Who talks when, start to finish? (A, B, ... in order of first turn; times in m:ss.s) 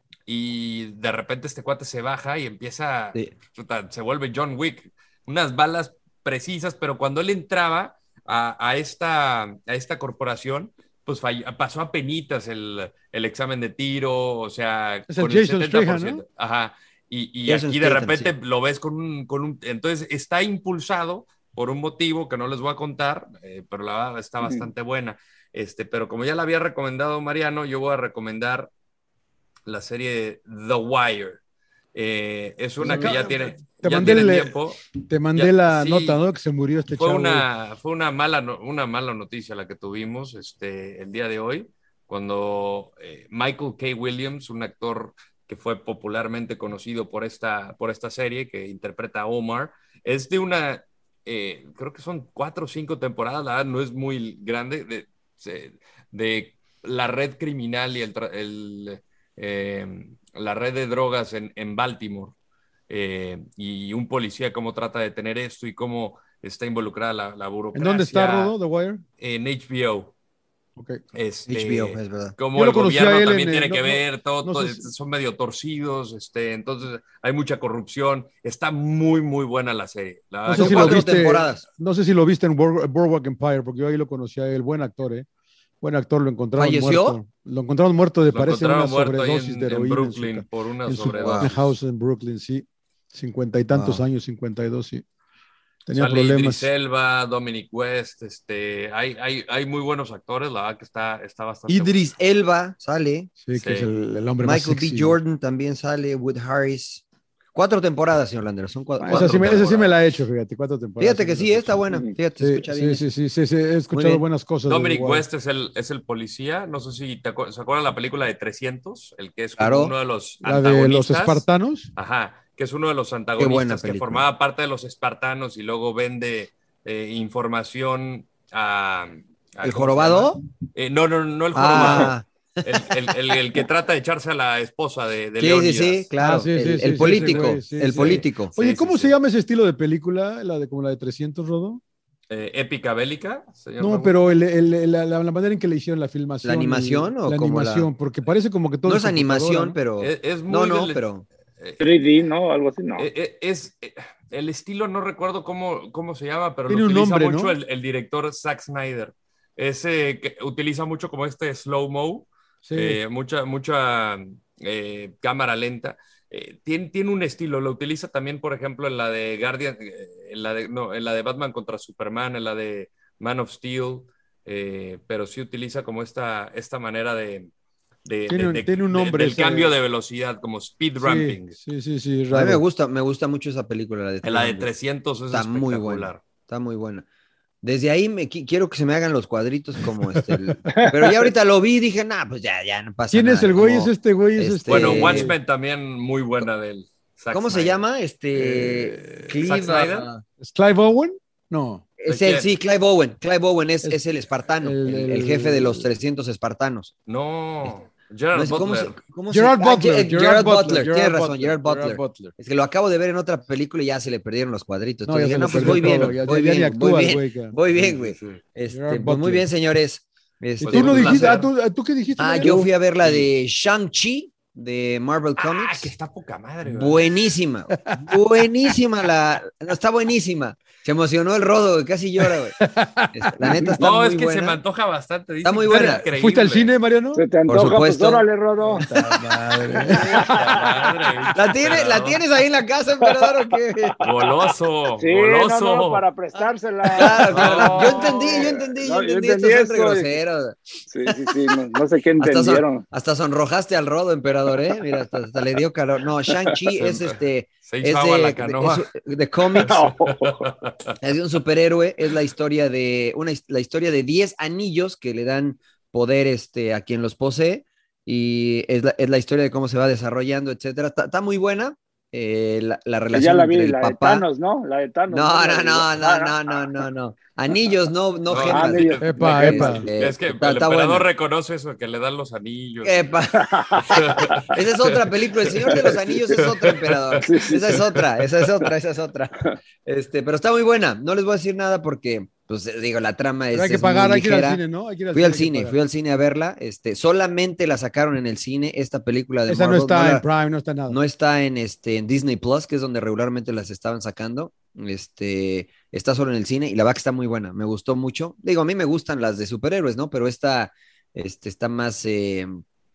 0:00.3-0:28.7 A
0:15.1-0:16.2 B
0:17.4-0:18.3 C
0:29.7-0:31.4 A
0:31.9-0:34.8 A
0:32.8-0:37.4 B
0:35.3-0:36.2 A
0:36.9-1:02.3 A
1:02.9-1:08.5 A
1:07.7-1:09.0 B
1:09.2-1:10.1 A
1:11.1-1:21.1 A
1:11.5-1:12.4 C
1:12.5-1:14.8 B
1:20.4-1:25.2 B
1:20.5-1:21.6 C
1:25.8-1:35.0 B
1:26.6-1:27.2 C
1:28.3-1:31.8 A
1:31.2-1:31.5 C
1:33.7-1:34.0 C
1:35.9-1:36.7 B
1:35.9-1:42.1 A
1:41.7-1:43.3 C
1:43.4-1:45.2 B
1:43.5-1:43.9 A
1:44.4-1:47.0 C
1:47.5-1:49.7 C
1:49.0-1:55.2 B
1:49.1-1:49.9 A
1:51.0-1:53.0 C
1:53.9-1:54.2 C
1:54.7-2:01.4 A
1:59.6-1:59.9 C
2:00.4-2:01.9 B
2:02.0-2:16.1 A
2:03.4-2:04.2 C
2:09.6-2:10.4 C
2:11.5-2:13.4 C
2:15.4-2:18.5 C
2:16.2-2:21.8 B
2:17.9-2:19.1 A
2:22.3-2:24.2 A
2:23.8-2:29.8 B
2:26.4-2:27.9 C
2:28.8-2:31.2 C
2:30.0-2:31.0 A
2:31.6-2:31.8 A
2:31.8-2:33.1 D
2:33.0-2:57.5 A
2:36.7-2:37.5 B
2:42.6-2:43.0 B
2:58.0-3:01.6 A
2:58.3-2:59.7 B
3:01.0-3:02.6 B
3:02.3-3:04.7 C
3:04.2-3:06.2 A
3:05.3-3:07.0 C
3:07.6-3:15.3 C
3:10.2-3:10.5 B
3:10.7-3:11.2 D
3:13.1-3:15.4 B
3:14.7-3:17.8 A
3:17.3-3:20.2 C
3:18.4-3:19.3 B
3:19.4-3:20.1 A
3:20.4-3:21.8 B
3:22.0-3:26.9 C
3:22.1-3:22.5 A
3:24.6-3:25.9 B
3:27.1-3:29.0 A
3:28.3-3:41.4 C
3:29.3-3:32.3 B
3:35.0-3:37.5 B
3:35.5-3:36.2 A
3:37.7-3:38.4 A
3:38.7-3:39.5 B
3:40.6-3:42.7 B
3:40.6-3:41.5 A
3:42.2-3:45.9 C
3:45.4-3:47.1 A
3:46.6-3:52.6 C
3:47.8-3:48.2 B
3:52.2-3:53.7 B
3:53.1-3:54.6 C
3:53.8-3:56.7 A
3:55.4-3:56.0 C
3:55.7-3:57.3 B
3:57.1-3:58.8 D
3:57.5-3:58.2 C
3:58.8-4:01.4 B
3:59.0-4:00.1 C
3:59.7-4:02.2 A
4:01.3-4:04.0 C
4:04.0-4:06.0 A
4:05.0-4:10.2 D
4:06.9-4:11.5 C
4:07.3-4:08.4 A
4:10.9-4:12.8 D
4:12.2-4:19.8 C
4:16.8-4:18.9 A
4:19.5-4:20.9 A
4:19.6-4:20.5 D
4:21.0-4:34.2 C
4:33.1-4:36.6 D
4:35.1-4:41.1 C
4:38.3-4:43.1 A
4:38.4-4:39.8 D
4:39.0-4:39.9 B
4:42.8-5:00.2 C
4:43.3-4:44.4 D
4:43.8-4:45.7 A
4:45.7-4:46.4 D
4:46.4-4:48.2 A
4:47.2-4:47.8 D
4:53.5-4:55.8 B
4:59.5-5:01.0 B
5:00.9-5:12.6 C